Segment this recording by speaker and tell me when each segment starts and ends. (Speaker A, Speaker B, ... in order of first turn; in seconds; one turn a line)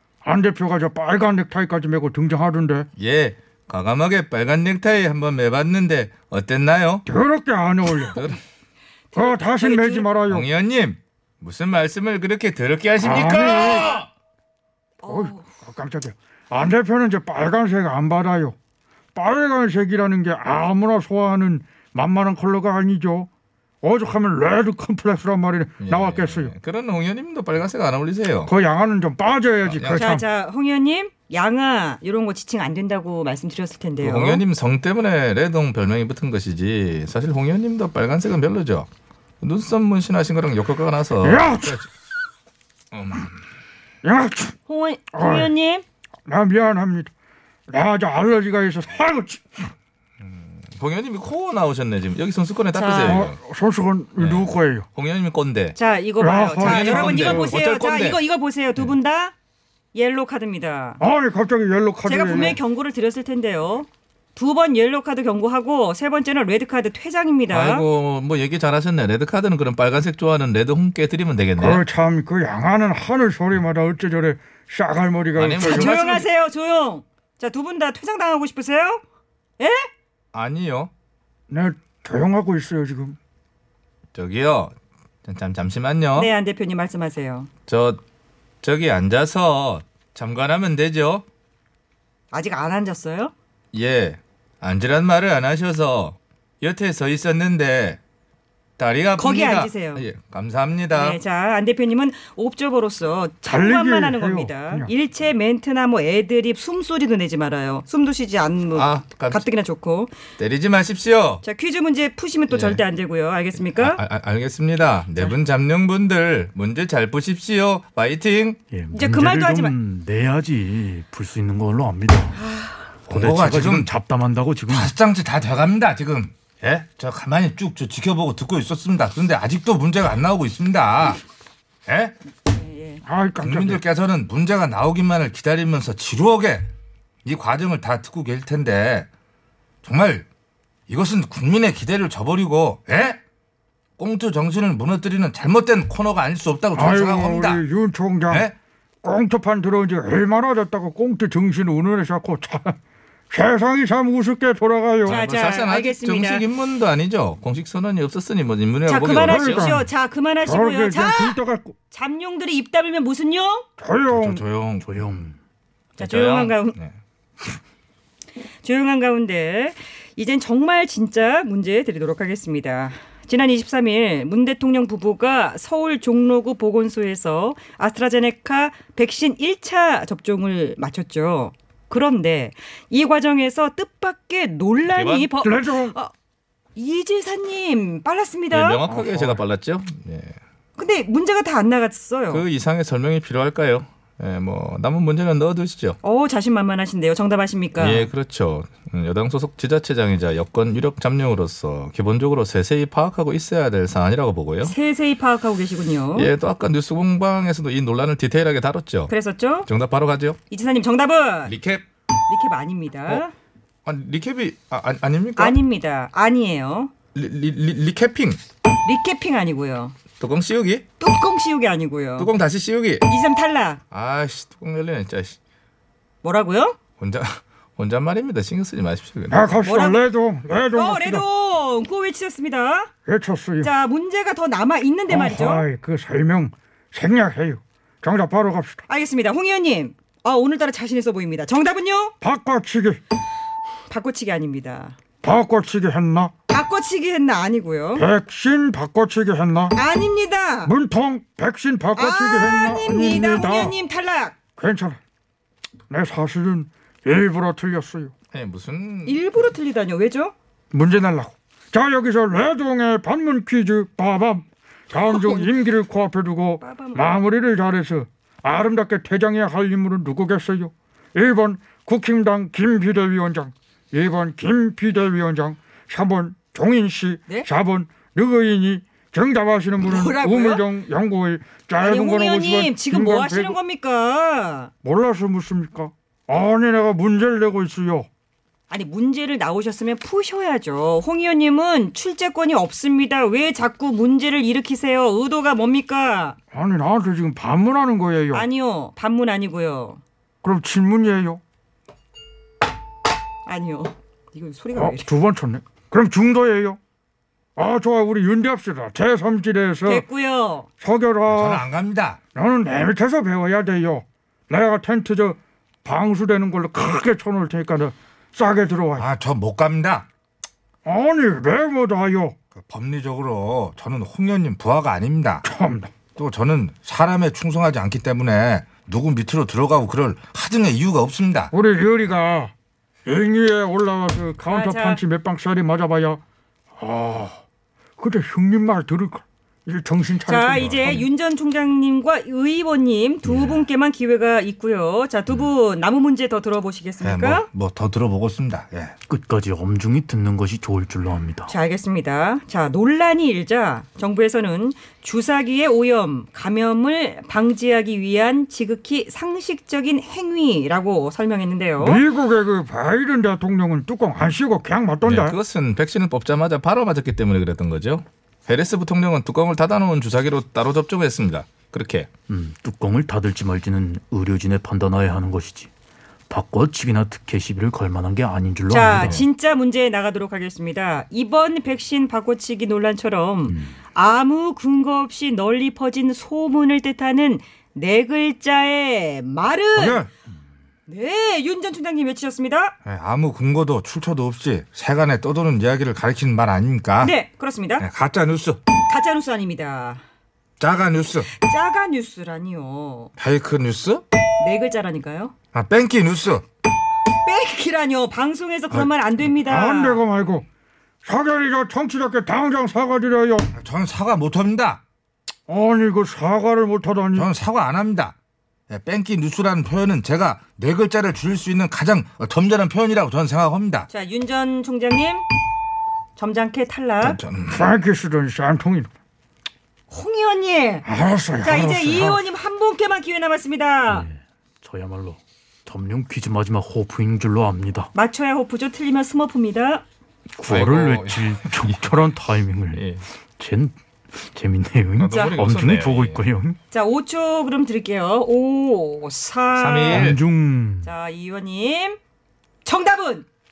Speaker A: 0.2-2.9
Speaker B: 3.0-7.0
Speaker A: 7.0-8.3
Speaker B: 8.1-8.4
Speaker C: 9.1-10.1
Speaker A: 9.1-10.5
Speaker B: 10.3-14.1
Speaker A: 13.0-14.0
Speaker C: 15.0-15.5
Speaker A: 15.0-18.5
Speaker A: 19.1-23.3
Speaker A: 23.8-26.5
Speaker B: 25.8-28.5
Speaker A: 28.5-30.2
Speaker B: 29.6-30.0
Speaker C: 29.9-34.4
Speaker B: 34.0-38.9
Speaker B: 39.4-41.9
Speaker A: 41.2-41.9
Speaker B: 42.9-43.3
Speaker A: 44.0-44.5
Speaker C: 44.7-45.8
Speaker A: 45.1-45.5
Speaker A: 46.3-47.1
Speaker A: 47.7-49.7
Speaker B: 50.2-53.4
Speaker C: 52.7-53.3
Speaker A: 53.0-54.9
Speaker B: 54.2-55.8
Speaker C: 55.7-59.3
Speaker A: 56.2-57.5
Speaker B: 56.6-58.2
Speaker C: 59.9-61.0
Speaker A: 61.0-62.6
Speaker C: 62.0-67.9
Speaker B: 67.5-71.8
Speaker A: 71.6-75.9
Speaker B: 75.3-76.2
Speaker C: 75.6-79.0
Speaker C: 79.6-79.9
Speaker B: 80.3-80.9
Speaker A: 81.5-83.2
Speaker B: 84.1-84.7
Speaker B: 85.2-86.3
Speaker C: 86.1-87.5
Speaker B: 87.7-88.0
Speaker B: 88.6-91.2
Speaker C: 92.3-93.3
Speaker B: 93.7-98.0
Speaker B: 98.8-101.2
Speaker C: 99.2-100.0
Speaker C: 100.9-110.1
Speaker A: 103.5-104.9
Speaker B: 108.7-109.5
Speaker B: 110.4-111.4
Speaker C: 111.4-114.0
Speaker B: 112.5-112.8
Speaker B: 113.7-118.6
Speaker D: 118.7-122.4
Speaker C: 118.9-119.7
Speaker C: 122.3-122.9
Speaker D: 123.1-124.9
Speaker B: 123.1-123.8
Speaker E: 123.3-123.8
Speaker E: 124.7-131.2
Speaker E: 131.9-132.1
Speaker C: 132.4-133.0
Speaker A: 133.0-133.8
Speaker E: 133.4-136.7
Speaker E: 137.2-139.1
Speaker E: 139.8-140.2
Speaker E: 140.9-143.2
Speaker B: 144.0-145.0
Speaker E: 144.0-147.6
Speaker A: 146.7-148.5
Speaker A: 149.0-152.8
Speaker A: 153.3-155.2
Speaker C: 155.1-156.4
Speaker B: 155.1-159.7
Speaker C: 158.9-161.4
Speaker A: 159.2-159.9
Speaker A: 160.4-161.7
Speaker C: 161.9-163.7
Speaker A: 163.8-164.4
Speaker B: 164.1-165.2
Speaker D: 164.8-165.4
Speaker B: 166.0-166.9
Speaker C: 166.0-166.8
Speaker C: 168.6-186.1
Speaker B: 184.8-185.3
Speaker A: 185.4-185.9
Speaker C: 186.8-188.8
Speaker B: 188.5-190.4
Speaker A: 188.9-189.4
Speaker C: 190.8-192.4
Speaker B: 192.3-196.0
Speaker C: 196.0-198.1
Speaker B: 197.8-204.7
Speaker C: 204.6-206.3
Speaker B: 206.1-209.1
Speaker C: 209.1-209.7
Speaker B: 209.6-210.4
Speaker C: 210.5-211.5
Speaker B: 211.4-211.8
Speaker C: 212.3-213.3
Speaker B: 213.8-215.6
Speaker C: 215.4-216.9
Speaker B: 217.1-218.4
Speaker C: 218.8-219.9
Speaker B: 220.2-220.8
Speaker C: 221.0-222.3
Speaker B: 222.2-223.1
Speaker C: 223.1-223.8
Speaker B: 223.9-225.4
Speaker C: 226.2-226.8
Speaker B: 227.0-229.5
Speaker A: 229.3-231.2
Speaker C: 229.6-230.0
Speaker C: 230.7-232.9
Speaker A: 233.1-233.7
Speaker C: 233.6-235.6
Speaker A: 235.1-238.8
Speaker C: 238.9-242.1
Speaker A: 242.2-243.0
Speaker C: 243.9-244.9
Speaker A: 245.2-246.3
Speaker C: 246.5-248.1
Speaker A: 247.9-249.8
Speaker C: 249.7-250.7
Speaker A: 250.6-253.7
Speaker C: 251.9-254.3
Speaker A: 254.6-255.0
Speaker A: 255.9-258.1
Speaker B: 258.3-259.2
Speaker C: 259.1-260.3
Speaker A: 260.7-283.6
Speaker C: 265.0-265.5
Speaker C: 266.6-267.1
Speaker C: 279.8-280.7
Speaker C: 281.8-284.7
Speaker A: 284.8-288.1
Speaker C: 288.7-296.4
Speaker A: 296.5-298.4
Speaker C: 298.3-300.0
Speaker A: 300.4-301.4
Speaker C: 303.4-305.1
Speaker A: 304.7-306.8
Speaker A: 307.6-310.0
Speaker C: 309.8-310.7
Speaker A: 310.8-311.6
Speaker E: 311.3-312.2
Speaker A: 312.3-319.1
Speaker E: 319.0-320.1
Speaker A: 320.8-322.3
Speaker E: 322.7-325.4
Speaker A: 325.4-325.9
Speaker E: 326.1-331.5
Speaker A: 331.5-332.5
Speaker A: 333.1-336.2
Speaker C: 334.4-335.0
Speaker A: 336.8-337.4
Speaker A: 338.0-341.0
Speaker C: 340.2-347.5
Speaker D: 343.2-343.6
Speaker E: 347.1-348.9
Speaker D: 349.1-351.5
Speaker C: 351.5-362.0
Speaker A: 361.8-365.4
Speaker B: 365.0-372.1
Speaker D: 372.3-375.7
Speaker D: 376.3-379.3
Speaker C: 378.7-390.1
Speaker D: 383.5-383.7
Speaker E: 389.7-390.1
Speaker C: 390.9-392.7
Speaker E: 392.8-396.7
Speaker B: 396.6-397.1
Speaker C: 397.0-397.8
Speaker E: 397.8-398.6
Speaker C: 398.8-400.0
Speaker E: 400.6-401.3
Speaker C: 401.3-403.1
Speaker E: 403.2-404.0
Speaker C: 404.4-405.3
Speaker E: 405.5-406.4
Speaker C: 407.2-410.0
Speaker A: 409.4-410.4
Speaker A: 411.0-413.5
Speaker E: 413.6-414.8
Speaker A: 415.5-417.3
Speaker E: 417.1-418.1
Speaker E: 418.7-423.9
Speaker C: 423.9-425.3
Speaker C: 426.1-427.2
Speaker B: 427.0-427.4
Speaker A: 427.5-428.9
Speaker C: 429.9-430.8
Speaker A: 430.9-432.2
Speaker C: 431.4-434.1
Speaker D: 433.9-437.9
Speaker C: 437.9-439.8
Speaker D: 440.4-442.9
Speaker B: 440.4-441.9
Speaker B: 442.7-443.1
Speaker D: 443.4-446.6
Speaker B: 445.0-446.2
Speaker C: 445.1-445.4
Speaker C: 446.7-450.1
Speaker B: 449.5-450.2
Speaker D: 449.9-450.9
Speaker C: 450.8-452.0
Speaker C: 452.6-453.3